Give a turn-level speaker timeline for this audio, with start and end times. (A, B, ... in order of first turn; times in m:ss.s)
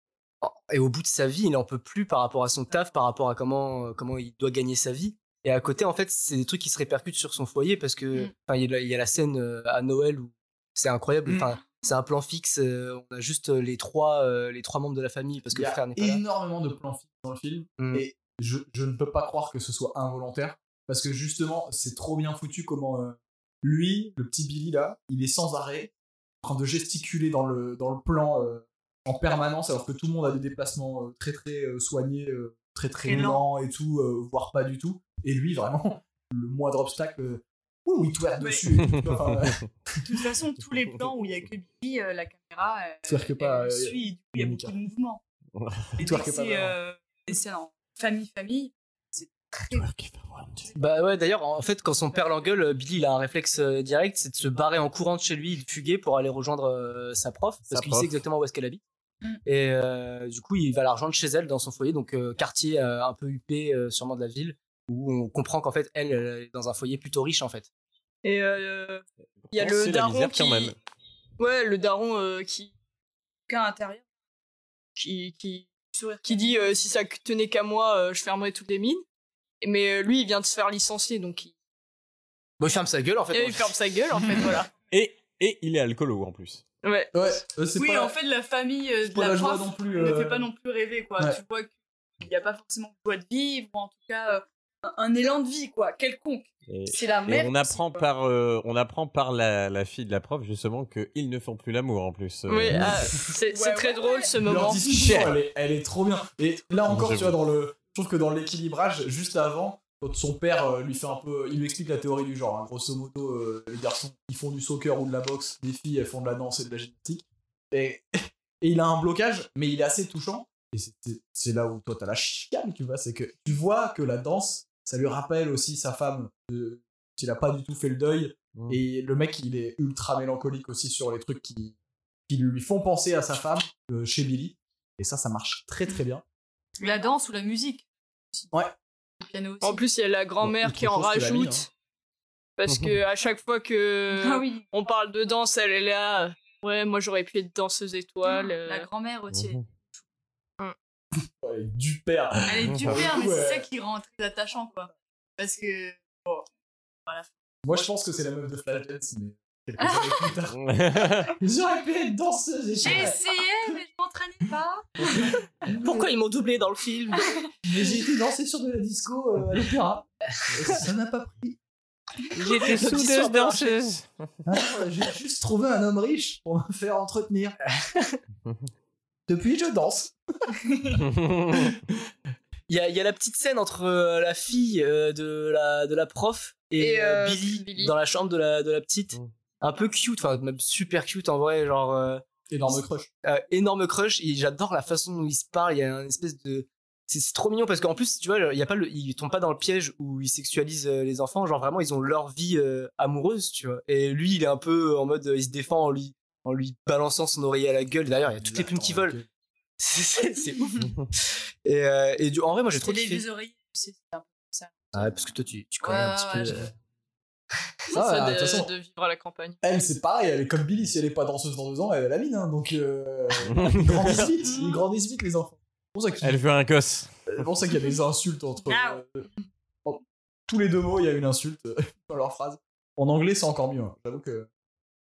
0:00.4-0:16.2 A
0:11.2-0:11.5 B
0:15.5-0:25.9 B
0:17.8-0:18.0 A
0:26.4-0:40.0 B
0:33.0-0:33.4 C
0:38.4-0:38.6 C
0:40.0-0:45.2 C
0:43.0-0:44.7 B
0:45.6-0:45.9 D
0:46.0-0:46.8 B
0:46.0-0:49.9 C
0:49.7-0:50.7 D
0:50.8-0:58.8 A
0:57.7-0:58.2 D
0:59.4-1:07.7 A
1:08.2-1:10.7 E
1:09.5-1:10.8 D
1:11.4-1:12.7 E
1:13.5-1:14.0 C
1:15.0-1:15.7 E
1:15.9-1:16.8 C
1:16.2-1:19.0 E
1:19.6-1:21.5 E
1:22.6-1:23.7 A
1:23.3-1:24.7 E
1:24.9-1:26.6 D
1:26.8-1:27.1 E
1:27.1-1:28.1 B
1:27.8-1:38.0 C
1:29.1-1:30.5 B
1:36.7-1:43.1 D
1:42.5-1:44.8 E
1:42.7-1:43.3 B
1:43.4-1:44.3 C
1:44.4-2:11.8 B
1:46.9-1:47.4 D
2:12.3-2:16.2 B
2:16.8-2:18.5 C
2:19.2-2:19.8 C
2:19.6-2:21.7 E
2:20.4-2:21.6 B
2:22.6-2:28.9 E
2:22.7-2:22.9 D
2:24.1-2:24.6 C
2:28.3-2:29.6 C
2:29.3-2:29.6 D
2:31.2-2:33.7 B
2:32.5-2:36.5 C
2:37.6-2:40.7 B
2:39.8-2:40.3 C
2:40.6-2:41.4 D
2:41.2-2:43.2 B
2:42.8-2:44.9 C
2:45.1-2:46.0 B
2:45.7-2:47.3 A
2:47.6-2:51.6 B
2:52.4-2:54.1 D
2:52.4-2:53.8 A
2:54.4-2:57.6 B
2:57.8-2:58.2 A
2:59.3-3:00.6 B
3:01.0-3:01.7 D
3:02.7-3:12.2 A
3:06.8-3:07.9 E
3:12.5-3:13.1 B
3:13.2-3:29.2 A
3:28.4-3:29.2 B
3:29.8-3:33.2 A
3:32.8-3:35.2 C
3:34.9-3:36.7 A
3:35.8-3:36.6 C
3:37.9-3:39.6 E
3:37.9-3:38.7 B
3:39.6-3:46.4 B
3:43.5-3:44.3 D
3:44.4-3:44.8 C
3:46.2-3:47.1 D
3:47.2-3:49.3 B
3:48.7-3:49.0 C
3:49.8-3:54.5 B